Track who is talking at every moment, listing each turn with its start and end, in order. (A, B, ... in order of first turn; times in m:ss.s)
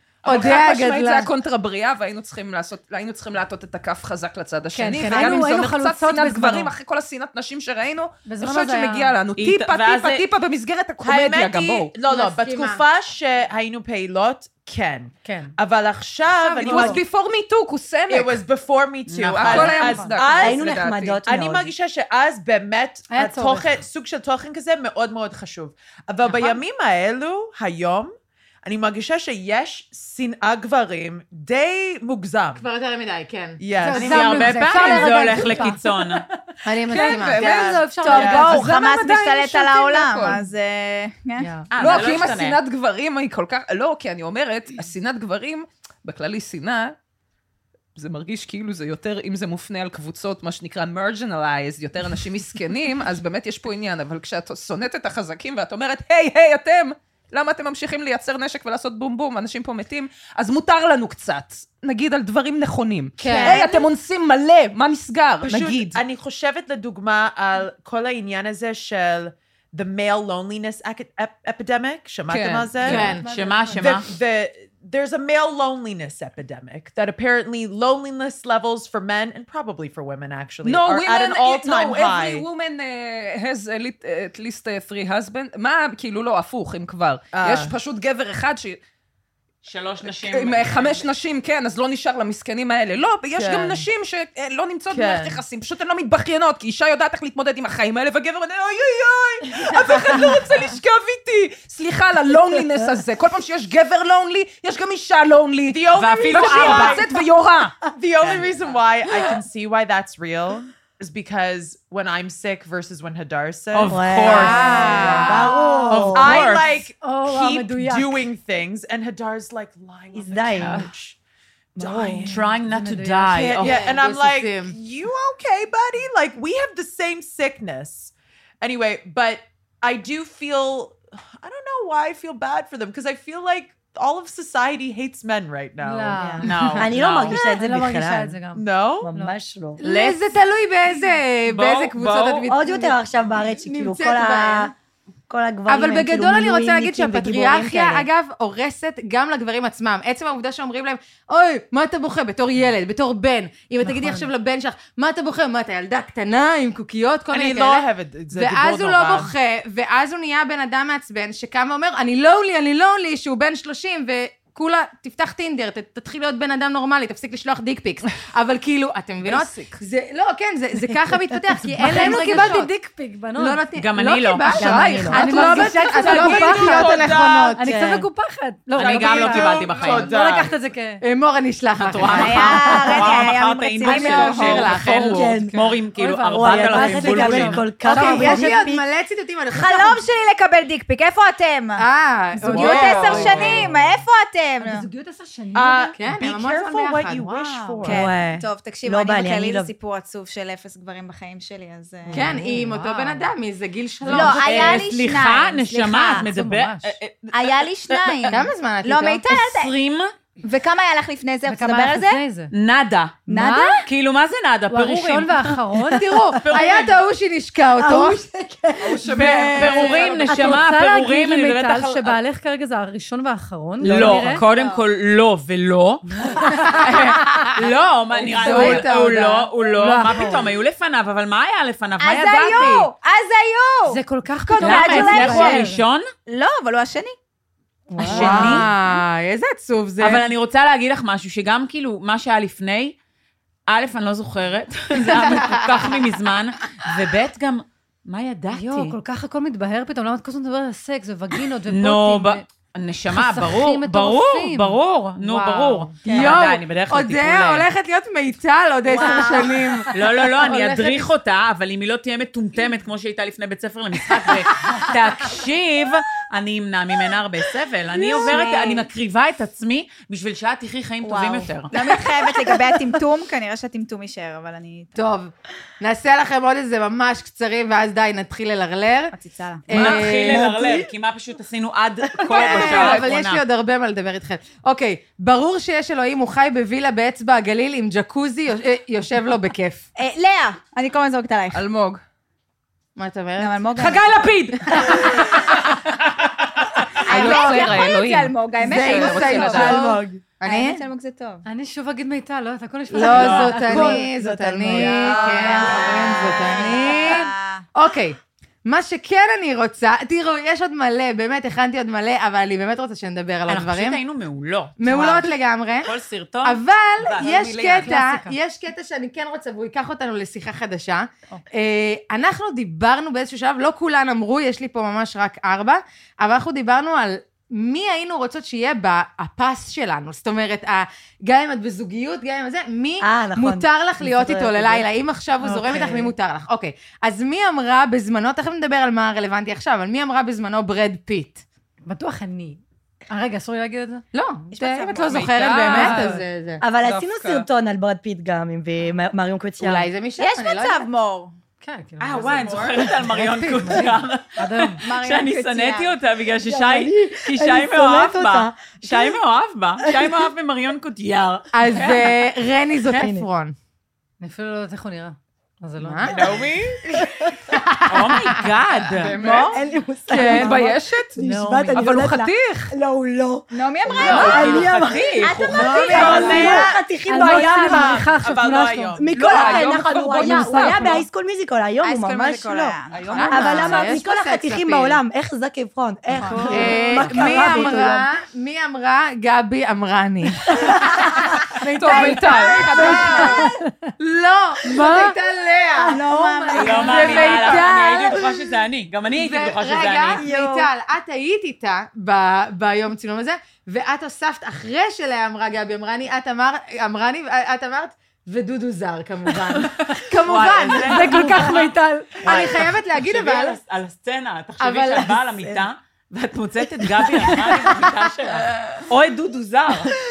0:00.2-0:01.3 A
0:00.3-0:11.9 B
0:00.5-0:00.9 C
0:04.7-0:06.7 C
0:05.1-0:05.4 D
0:08.2-0:09.2 C
0:09.4-0:10.3 E
0:11.0-0:17.0 F
0:12.0-0:12.8 A
0:15.2-0:15.5 C
0:16.5-0:17.0 C
0:16.6-0:18.4 B
0:18.1-0:32.6 F
0:19.1-0:19.8 E
0:19.3-0:21.2 B
0:19.6-0:20.3 C
0:20.4-0:21.7 D
0:23.1-0:23.9 C
0:32.6-0:33.6 A
0:33.6-0:35.2 F
0:33.8-0:38.8 C
0:33.9-0:36.2 E
0:36.6-0:37.5 A
0:36.9-0:40.4 B
0:37.3-0:38.6 F
0:38.0-0:41.5 G
0:41.4-0:41.7 C
0:41.7-0:42.6 E
0:41.8-0:47.0 B
0:48.0-1:06.0 B
1:03.2-1:03.7 A
1:03.3-1:03.8 G
1:05.4-1:13.2 F
1:12.3-1:12.8 B
1:12.8-1:14.0 E
1:12.8-1:13.2 A
1:12.8-1:14.0 C
1:13.7-1:22.4 F
1:20.6-1:28.8 B
1:27.4-1:27.7 F
1:29.6-1:31.1 E
1:30.0-1:47.7 B
1:33.4-1:33.7 F
1:35.0-1:35.3 A
1:45.7-1:47.1 F
1:45.9-1:47.1 E
1:48.0-1:55.1 F
1:53.7-1:56.8 E
1:53.9-1:56.4 D
1:54.3-1:55.5 A
1:55.1-1:55.8 C
1:56.1-2:01.2 F
1:56.9-1:58.3 C
2:00.1-2:00.8 D
2:01.8-2:02.4 D
2:01.8-2:02.3 F
2:02.0-2:03.7 C
2:02.3-2:03.9 E
2:03.5-2:16.3 F
2:03.6-2:04.8 A
2:15.8-2:19.4 C
2:16.2-2:18.4 D
2:16.4-2:17.4 E
2:18.5-2:19.1 F
2:19.0-2:19.8 D
2:19.8-2:23.0 A
2:19.8-2:20.3 E
2:21.5-2:22.5 E
2:22.5-2:24.7 D
2:23.6-2:24.7 A
2:25.3-2:28.1 D
2:25.7-2:52.7 A
2:33.8-2:34.3 C
2:37.3-2:39.3 F
2:49.2-2:49.8 B
2:51.6-2:53.6 C
2:53.4-2:57.6 A
2:53.8-2:54.5 E
2:54.5-2:55.6 D
2:54.6-3:01.0 C
2:54.7-2:55.0 B
2:56.0-2:57.6 F
2:56.1-2:57.1 B
2:57.6-2:58.1 D
2:58.7-3:00.1 E
2:58.8-3:00.6 F
2:59.2-3:00.1 B
3:01.0-3:02.9 A
3:01.8-3:07.7 E
3:02.1-3:04.7 G
3:03.8-3:05.4 A
3:05.0-3:05.6 D
3:05.8-3:08.6 C
3:06.3-3:08.8 D
3:07.9-3:10.0 A
3:09.5-3:11.8 G
3:11.8-3:13.7 A
3:12.4-3:14.9 G
3:12.5-3:13.7 F
3:14.6-3:16.0 C
3:15.5-3:18.1 F
3:16.0-3:17.8 A
3:17.8-3:19.7 D
3:17.8-3:22.4 G
3:22.1-3:24.7 A
3:22.1-3:22.5 D
3:24.1-3:24.8 C
3:24.1-3:26.2 G
3:24.1-3:28.4 E
3:26.1-3:27.0 C
3:27.3-3:29.7 G
3:28.3-3:29.2 A
3:29.3-3:30.1 E
3:30.4-3:32.2 G
3:31.5-3:32.5 C
3:32.5-3:33.2 E
3:33.3-3:33.8 C
3:33.3-3:33.8 G
3:33.8-3:35.6 E
3:34.7-3:36.1 C
3:35.9-3:38.2 A
3:36.4-3:37.0 E
3:37.8-3:39.6 D
3:38.8-3:40.0 B
3:39.1-3:40.4 A
3:39.6-3:42.2 E
3:39.8-3:44.4 C
3:43.8-3:52.9 E
3:44.4-3:44.8 G
3:46.1-3:46.9 C
3:46.5-3:47.6 A
3:48.2-3:48.9 C
3:48.3-3:49.5 A
3:49.7-3:50.5 C
3:52.0-3:55.6 G
3:53.9-3:55.8 C
3:54.6-3:56.1 E
3:56.3-3:57.2 G
3:57.9-3:58.7 C
3:58.0-3:58.7 E
3:58.0-3:58.4 D
3:58.0-4:00.2 A
4:00.0-4:03.0 E
4:03.7-4:09.0 E
4:05.0-4:06.0 A
4:08.5-4:12.4 C
4:11.7-4:17.7 E
4:13.1-4:14.8 C
4:15.2-4:19.9 A
4:16.1-4:16.4 D
4:18.9-4:20.0 C
4:19.0-4:19.5 D
4:19.9-4:31.7 E
4:20.4-4:21.0 F
4:28.0-4:28.8 G
4:31.0-4:34.9 G
4:35.0-4:39.1 A
4:39.1-4:39.7 G
4:39.7-4:40.5 A
4:39.7-4:43.4 E
4:39.8-4:40.9 D
4:42.3-4:49.9 A
4:42.4-4:43.1 B
4:50.0-4:51.6 G
4:51.5-4:52.0 B
4:53.0-4:54.0 A
4:53.4-4:54.2 G
4:53.8-4:55.6 C
4:54.7-4:55.4 A
4:57.0-4:57.8 A
4:57.1-4:59.9 B
4:57.1-5:01.4 G
4:58.6-5:00.8 A
4:59.5-5:00.2 D
5:01.4-5:05.2 C
5:02.9-5:14.0 A
5:03.2-5:03.6 E
5:05.0-5:07.6 G
5:05.0-5:06.2 B
5:13.5-5:15.3 E
5:14.8-5:15.9 A
5:15.8-5:17.8 E
5:16.4-5:41.4 A
5:17.8-5:18.4 C
5:33.0-5:34.8 D
5:35.4-5:36.1 C
5:41.9-5:44.0 C
5:44.1-5:46.6 A
5:44.5-5:45.6 G
5:45.5-5:46.2 C
5:45.7-5:46.2 B
5:46.6-5:49.9 D
5:46.8-5:47.5 B
5:49.6-5:50.9 A
5:50.2-5:51.4 G
5:51.6-5:54.9 C
5:52.0-6:02.1 E
5:52.2-5:52.7 F
5:54.8-5:56.0 G
5:56.4-5:59.2 D
5:59.8-6:00.2 D
6:01.5-6:03.6 A
6:02.9-6:03.3 D
6:04.2-6:06.4 C
6:05.8-6:06.1 A
6:06.1-6:06.9 F
6:07.0-6:07.4 D
6:07.5-6:08.3 A
6:07.9-6:09.5 E
6:09.0-6:09.6 B
6:09.1-6:18.1 D
6:09.2-6:09.5 A
6:10.1-6:10.6 A
6:10.2-6:11.2 B
6:11.2-6:12.0 C
6:11.7-6:12.8 B
6:13.5-6:14.7 G
6:13.9-6:19.0 E
6:14.1-6:14.4 F
6:15.2-6:16.8 G
6:15.9-6:21.1 C
6:19.0-6:22.8 D
6:19.1-6:21.0 B
6:21.8-6:23.2 G
6:22.9-6:23.8 B
6:23.1-6:25.0 A
6:23.3-6:28.1 D
6:26.1-6:26.8 G
6:26.5-6:30.6 A
6:27.2-6:27.8 C
6:30.5-6:31.0 D
6:31.6-6:33.7 C
6:31.8-6:33.3 B
6:32.6-6:33.2 D
6:32.6-6:33.4 A
6:34.0-6:38.4 A
6:34.7-6:35.2 C
6:35.9-6:37.6 G
6:35.9-6:37.2 D
6:36.6-6:40.2 E
6:39.2-6:51.3 A
6:40.2-6:40.6 D
6:40.2-6:40.5 G
6:50.0-6:59.9 E
6:50.8-6:52.2 C
6:52.2-6:53.6 A
6:54.6-6:55.2 A